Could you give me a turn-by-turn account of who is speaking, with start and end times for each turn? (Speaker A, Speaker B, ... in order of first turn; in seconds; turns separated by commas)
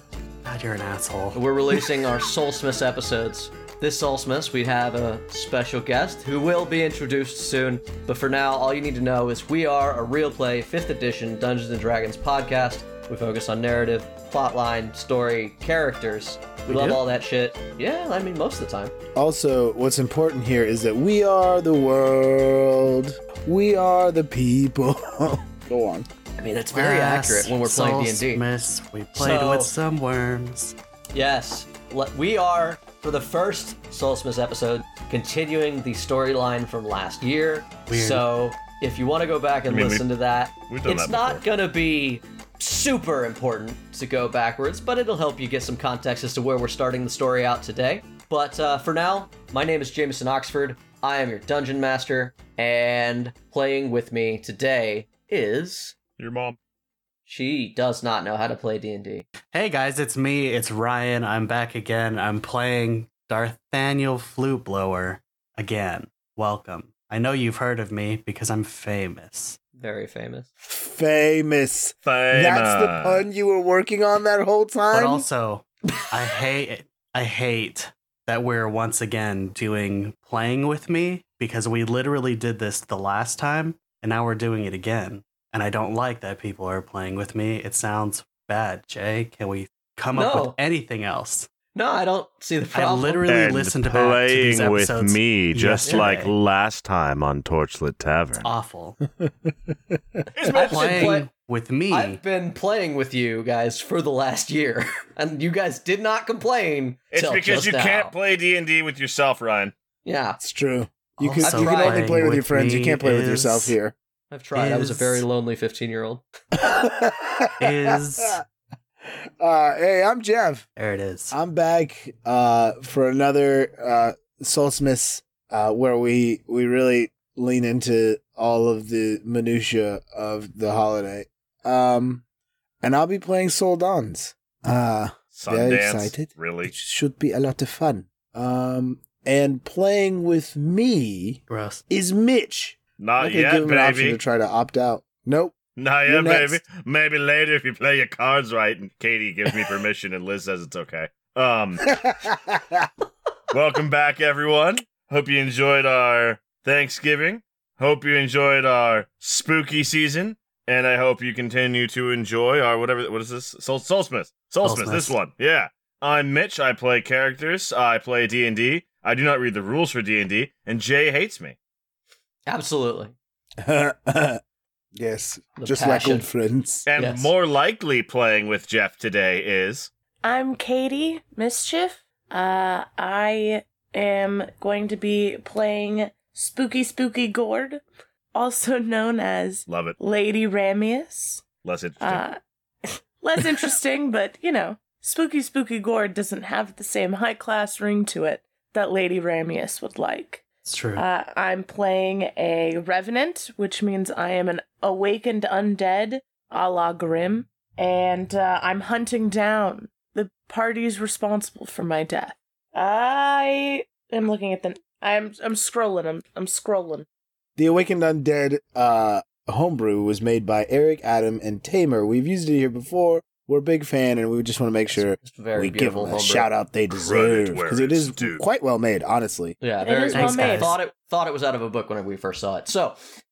Speaker A: 0.5-1.4, Speaker B: 1.3-18.9, Speaker A: 16.7-17.0, Speaker C: 19.1-26.1, Speaker B: 26.4-28.4, Speaker A: 26.7-30.8, Speaker B: 29.1-29.8, Speaker B: 31.1-56.0, Speaker A: 37.9-38.3, Speaker D: 39.7-40.1, Speaker D: 40.7-41.4, Speaker D: 56.2-56.6, Speaker B: 57.3-59.3, Speaker A: 59.5-69.6, Speaker B: 69.7-70.5, Speaker C: 70.6-75.3, Speaker D: 72.0-73.2, Speaker A: 74.9-91.5, Speaker B: 90.1-90.6, Speaker B: 91.7-93.5, Speaker A: 92.7-96.3, Speaker D: 93.3-98.5, Speaker B: 95.8-96.1, Speaker A: 98.4-99.0, Speaker D: 100.3-101.2, Speaker B: 100.5-101.3, Speaker A: 100.5-102.2, Speaker B: 101.9-108.1, Speaker D: 107.1-109.7, Speaker B: 110.0-110.4, Speaker C: 110.4-114.0, Speaker A: 111.2-113.8, Speaker B: 111.4-112.2, Speaker B: 114.3-116.2, Speaker A: 114.5-115.2, Speaker C: 116.5-118.4, Speaker A: 117.6-118.4, Speaker C: 119.0-120.7, Speaker A: 120.8-121.3, Speaker C: 121.3-132.2, Speaker C: 132.8-146.6, Speaker D: 135.3-136.7, Speaker A: 141.5-141.8, Speaker D: 143.0-144.2, Speaker D: 145.8-152.0, Speaker C: 152.0-152.9, Speaker D: 153.5-171.6, Speaker A: 164.6-165.2, Speaker B: 172.5-173.2, Speaker C: 173.6-174.4, Speaker C: 174.9-176.9, Speaker B: 175.6-176.3, Speaker D: 176.9-179.9, Speaker B: 177.0-177.3, Speaker E: 180.2-187.8, Speaker E: 188.3-191.4, Speaker D: 189.7-190.0, Speaker D: 191.6-192.2, Speaker E: 192.0-217.1, Speaker A: 200.7-201.0, Speaker C: 217.6-229.6, Speaker B: 224.9-226.5, Speaker D: 226.9-228.4, Speaker B: 229.6-233.1, Speaker E: 229.8-230.8, Speaker A: 230.1-230.8